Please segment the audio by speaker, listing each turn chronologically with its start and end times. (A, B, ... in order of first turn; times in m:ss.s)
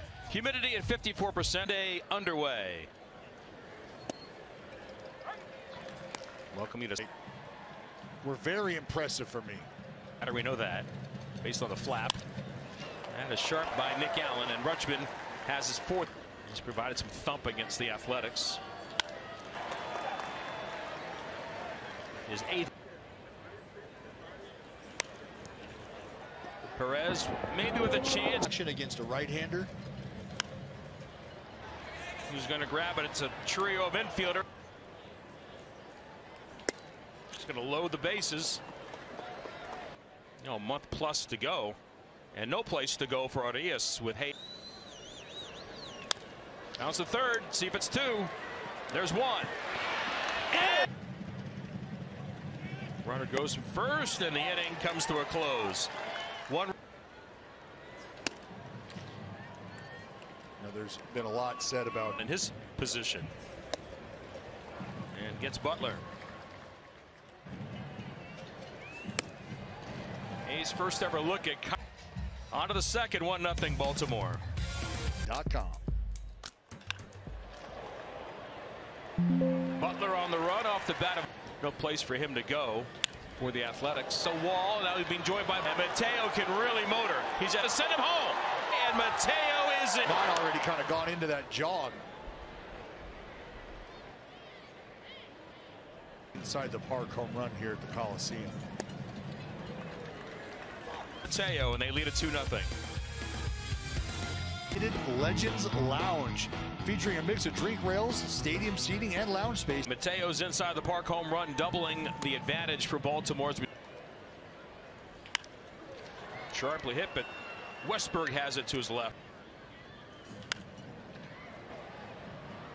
0:00.3-0:02.9 A
0:06.5-0:07.1 A
0:08.2-0:09.7 B
0:10.2-0:10.9 A
0:11.4-0:12.2 A
0:13.1-0:18.6 A
0:22.3-0:22.7 A
0:26.6-0:28.5 A
0:28.4-0:29.7 B
0:32.2-0:34.4 A
0:37.3-0:38.6 A
0:40.4-0:41.8 A
0:42.3-0:44.3 A
0:46.8-0:48.3 A
0:48.9-0:49.5 A
0:50.5-0:50.8 A
0:53.0-0:55.9 A
0:56.5-0:56.7 A
1:00.6-1:02.2 B
1:02.2-1:03.3 A
1:05.1-1:06.1 A
1:10.4-1:11.8 A
1:12.5-1:14.4 A
1:15.2-1:15.8 B
1:19.8-1:30.2 A
1:30.0-1:32.0 B
1:36.3-1:38.6 B
1:41.2-1:42.7 A
1:44.7-1:49.8 B
1:49.8-1:53.7 A
1:56.5-1:57.3 A
1:57.8-1:59.2 A